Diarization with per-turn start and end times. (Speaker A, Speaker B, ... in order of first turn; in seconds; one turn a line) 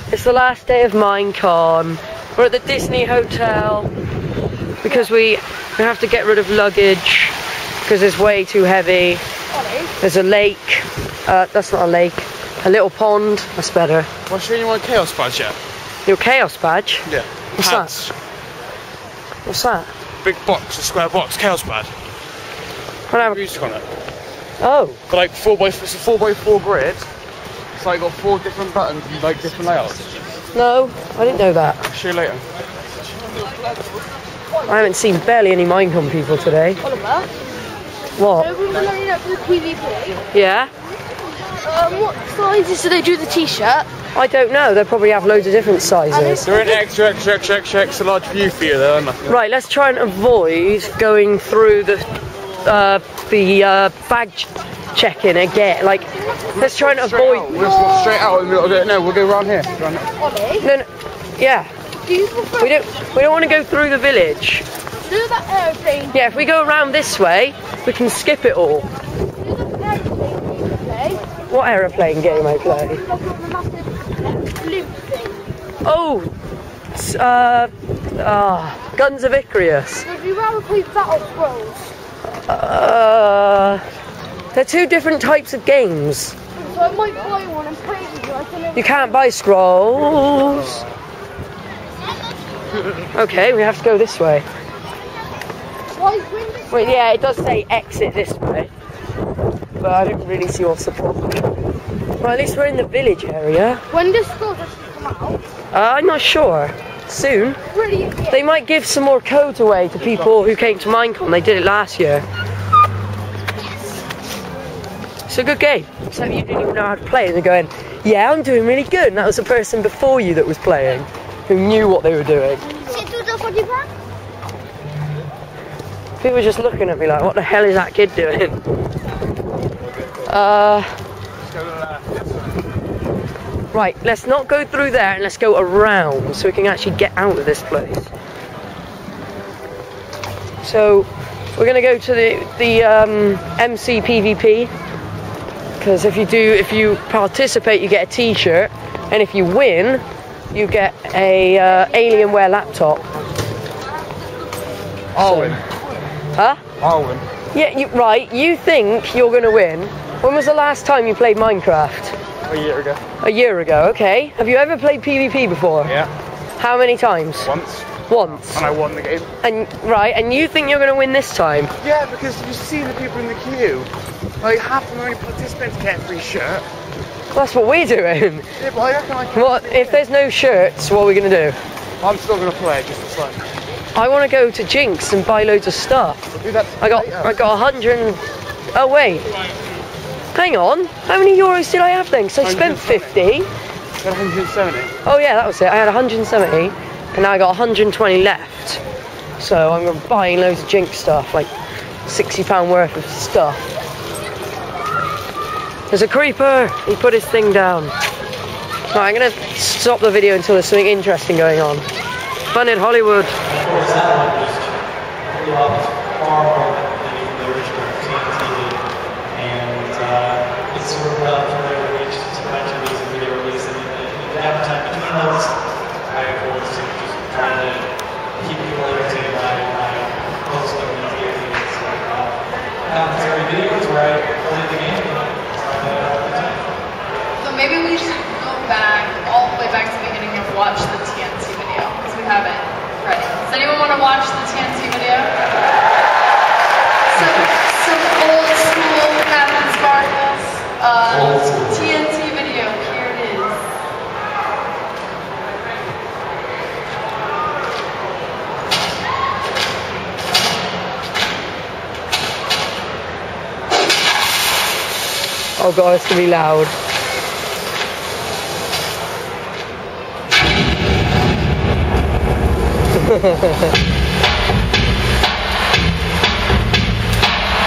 Speaker A: 0.1-3.9
Speaker A: 4.8-9.2
Speaker B: 9.5-9.9
Speaker A: 10.0-14.1
Speaker C: 14.3-15.6
Speaker A: 16.1-17.9
Speaker C: 17.1-18.1
Speaker A: 19.5-19.9
Speaker C: 20.2-21.9
Speaker A: 23.1-23.4
Speaker C: 23.1-23.8
Speaker A: 24.6-25.0
Speaker C: 25.1-27.1
Speaker C: 27.8-30.1
Speaker A: 30.5-31.8
Speaker C: 31.9-32.4
Speaker A: 34.7-36.8
Speaker B: 36.8-37.3
Speaker A: 38.2-38.5
Speaker B: 38.3-40.2
Speaker A: 40.3-40.7
Speaker B: 41.6-43.9
Speaker A: 44.1-46.5
Speaker B: 46.1-46.8
Speaker C: 46.4-49.3
Speaker A: 49.3-52.1
Speaker A: 52.6-57.6
Speaker C: 56.6-60.0
Speaker B: 57.6-58.3
Speaker B: 60.1-60.7
Speaker A: 60.6-60.9
Speaker A: 61.4-61.7
Speaker B: 62.0-62.9
Speaker A: 62.6-64.7
Speaker B: 65.1-66.4
Speaker A: 66.1-68.9
Speaker B: 69.4-71.3
Speaker A: 71.5-73.0
Speaker B: 72.6-75.5
Speaker A: 75.8-76.3
Speaker A: 76.9-80.1
Speaker B: 80.0-81.9
Speaker A: 82.3-83.8
Speaker A: 84.5-86.4
Speaker B: 86.6-89.1
Speaker A: 88.8-90.8
Speaker A: 93.1-94.5
Speaker B: 95.9-97.0
Speaker A: 96.7-98.7
Speaker A: 99.8-101.4
Speaker A: 102.2-103.8
Speaker B: 103.9-105.4
Speaker A: 105.7-107.6
Speaker B: 107.7-108.4
Speaker A: 108.3-112.3
Speaker A: 115.3-122.7
Speaker B: 122.8-123.9
Speaker A: 126.2-128.6
Speaker A: 130.3-130.9
Speaker C: 131.5-132.2
Speaker A: 133.7-138.1
Speaker A: 140.6-144.7
Speaker A: 145.8-153.0
Speaker C: 155.2-155.8
Speaker A: 155.2-155.6
Speaker A: 156.4-156.6
Speaker C: 156.8-157.2
Speaker A: 157.5-162.2
Speaker C: 162.5-163.0
Speaker A: 163.2-166.0
Speaker C: 165.8-166.1
Speaker A: 166.6-167.5
Speaker C: 167.4-169.3
Speaker A: 168.1-168.7
Speaker A: 169.4-171.7
Speaker C: 171.8-173.9
Speaker C: 174.4-176.6
Speaker A: 177.3-178.5
Speaker C: 178.6-180.0
Speaker A: 179.3-181.6
Speaker C: 182.0-183.4
Speaker A: 183.9-186.2
Speaker C: 186.4-187.3
Speaker A: 186.8-188.2
Speaker A: 188.7-189.3
Speaker A: 190.3-193.5
Speaker C: 192.4-193.2
Speaker C: 194.0-194.9
Speaker A: 195.0-198.8
Speaker A: 199.4-201.5
Speaker A: 202.1-203.7
Speaker A: 205.9-207.9
Speaker A: 208.9-211.8
Speaker A: 212.5-213.3
Speaker D: 213.4-236.7
Speaker E: 237.4-245.4
Speaker E: 247.1-253.7
Speaker D: 251.0-251.8
Speaker A: 265.6-266.7